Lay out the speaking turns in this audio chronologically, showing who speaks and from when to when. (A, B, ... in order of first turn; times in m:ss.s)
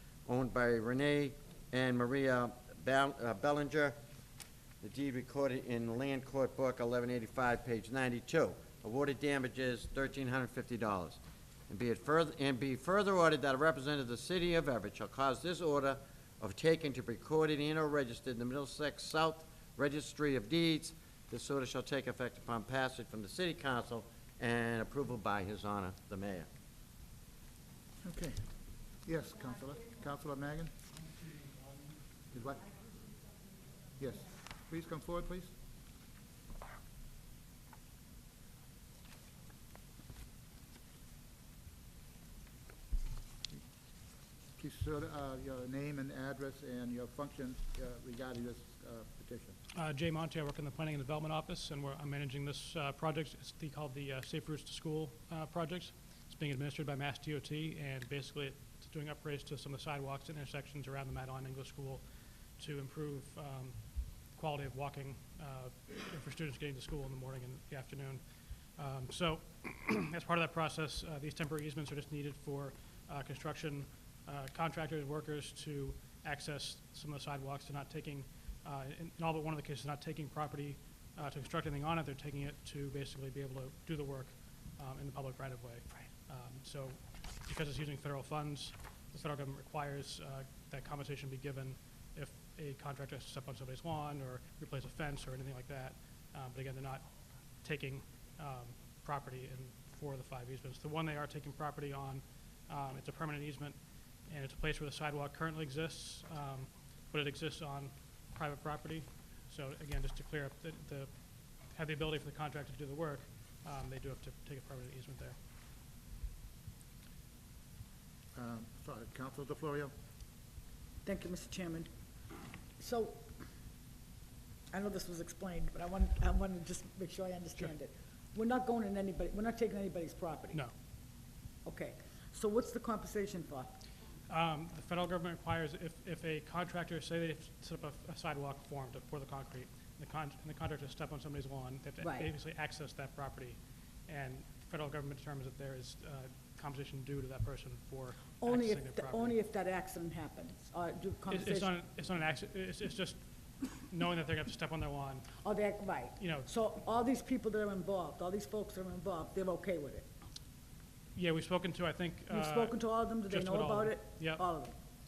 0:00.3-0:04.0 A
0:04.8-0:26.5 A
0:28.0-0:28.4 B
0:29.0-0:30.7 B
0:32.3-0:32.8 B
0:34.0-0:35.5 B
0:44.6-0:49.6 B
0:49.7-1:02.0 C
1:02.6-1:55.4 C
1:58.3-1:59.9 B
2:01.0-2:01.9 D
2:02.8-2:03.2 D
2:04.7-2:10.6 D
2:11.6-2:13.7 D
2:14.3-2:29.4 C
2:22.0-2:22.3 D
2:28.4-2:31.7 D
2:31.3-2:35.3 C
2:35.4-2:40.0 D
2:36.2-2:36.5 C
2:41.1-2:44.6 C
2:42.3-2:44.7 D